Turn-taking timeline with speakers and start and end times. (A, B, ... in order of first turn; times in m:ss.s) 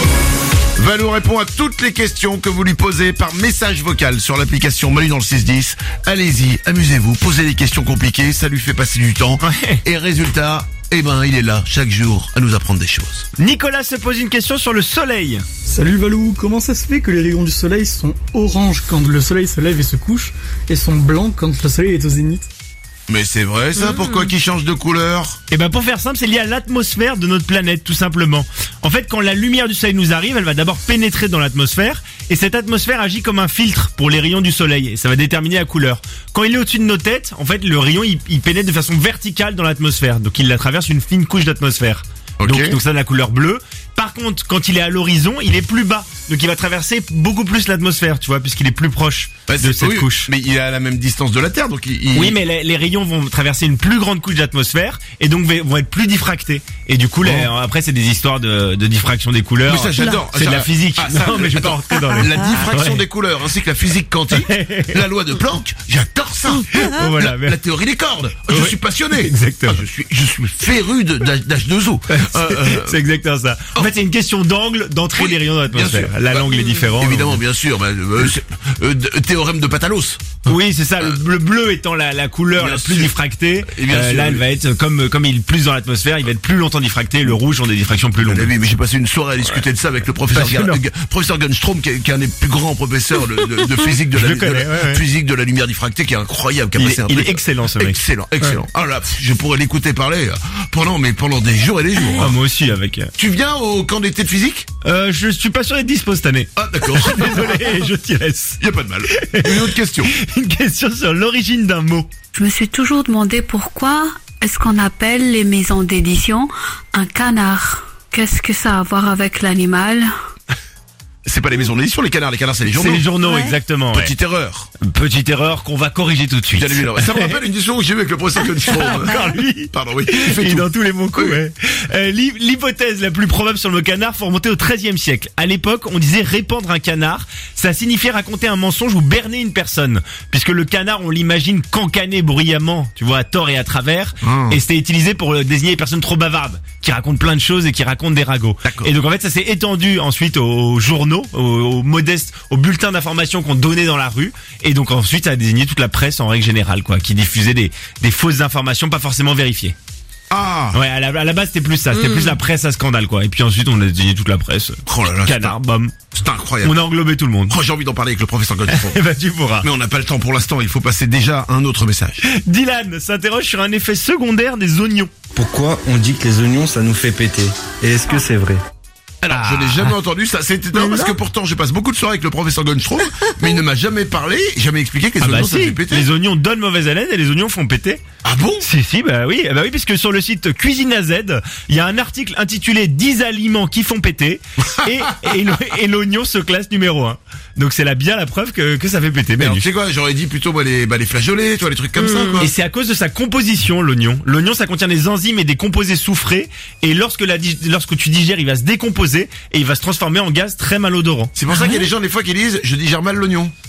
0:00.8-0:13.2 A
0:09.4-0:09.8 B
0:13.4-0:15.4 B
0:15.6-0:22.5 C
0:23.1-0:25.4 A
0:25.5-0:50.3 B
0:42.4-0:42.8 A
0:49.5-0:52.4 A
0:52.1-1:03.0 B
0:57.2-0:57.5 A
0:59.6-1:13.0 A
1:04.4-1:05.0 B
1:06.7-1:07.6 B
1:08.5-1:09.8 B
1:12.1-1:17.4 B
1:15.2-1:20.5 A
1:20.4-1:28.5 B
1:22.6-1:23.2 A
1:23.7-1:24.4 A
1:28.2-1:42.3 A
1:30.3-1:30.8 B
1:34.1-1:35.0 B
1:36.8-1:38.6 B
1:42.1-1:43.1 B
1:43.2-1:44.7 A
1:44.8-1:48.6 B
1:46.6-1:47.8 A
1:48.6-1:50.1 A
1:49.1-1:52.1 B
1:52.3-2:00.1 D
2:01.2-2:03.1 A
2:02.7-2:04.1 B
2:03.9-2:04.7 A
2:04.8-2:07.4 B
2:06.6-2:11.4 A
2:08.5-2:39.7 B
2:24.2-2:24.6 A
2:28.6-2:28.9 A
2:40.3-2:40.8 A
2:40.7-2:45.9 B
2:44.8-2:45.6 A
2:46.1-2:46.8 A
2:46.6-2:47.6 B
2:47.5-2:49.0 A
2:48.7-2:49.7 B
2:49.6-2:52.2 A
2:52.2-2:55.1 B
2:55.3-2:58.6 E
2:59.2-3:06.1 A
2:59.3-2:59.9 B
3:05.2-3:08.0 B
3:08.2-3:08.6 A
3:08.6-3:19.7 B
3:19.4-3:22.5 A
3:22.4-3:31.3 B
3:31.3-3:33.5 A